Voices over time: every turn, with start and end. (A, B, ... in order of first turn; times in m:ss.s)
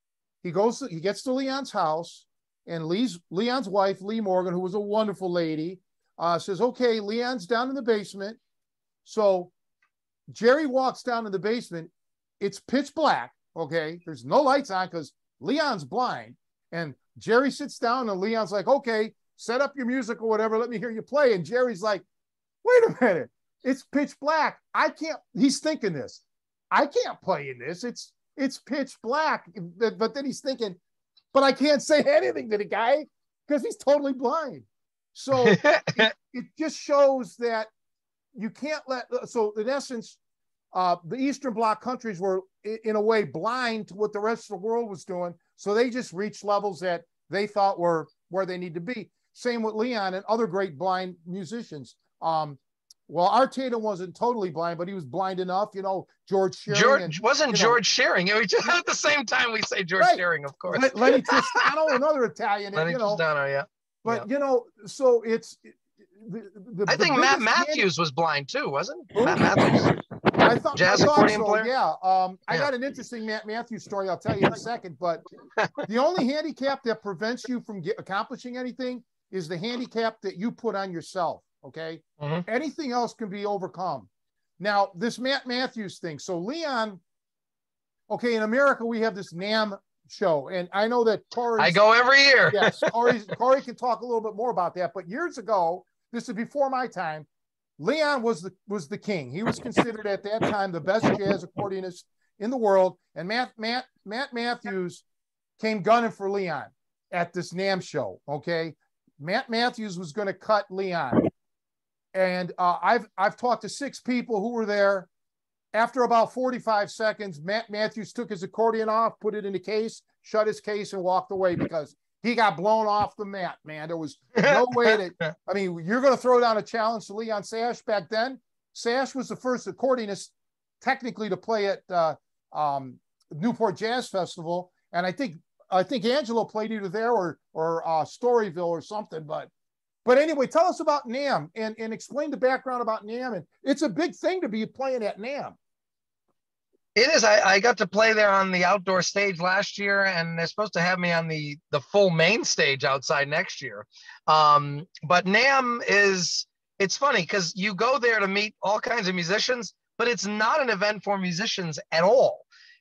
0:00.4-0:08.4 A
0:09.0-0:09.5 A
0:10.3-0:22.0 A
0:22.6-0:30.8 A
0:31.3-0:37.7 A
0:35.4-0:36.1 B
0:38.3-0:40.2 A
0:40.7-0:57.8 A
0:56.7-1:01.6 B
1:00.0-1:03.2 A
1:02.7-1:04.2 B
1:04.0-1:07.8 A
1:06.9-1:10.0 B
1:09.1-1:15.2 A
1:10.7-1:11.7 B
1:15.8-1:24.1 A
1:22.2-1:22.4 B
1:24.6-1:27.0 A
1:28.1-1:31.8 A
1:31.6-1:33.0 B
1:32.5-1:37.3 A
1:37.8-1:45.0 A
1:45.6-1:51.3 A
1:52.1-1:55.1 A
1:55.7-2:19.5 A
2:04.4-2:05.3 B
2:20.0-2:25.6 A
2:26.9-2:42.4 B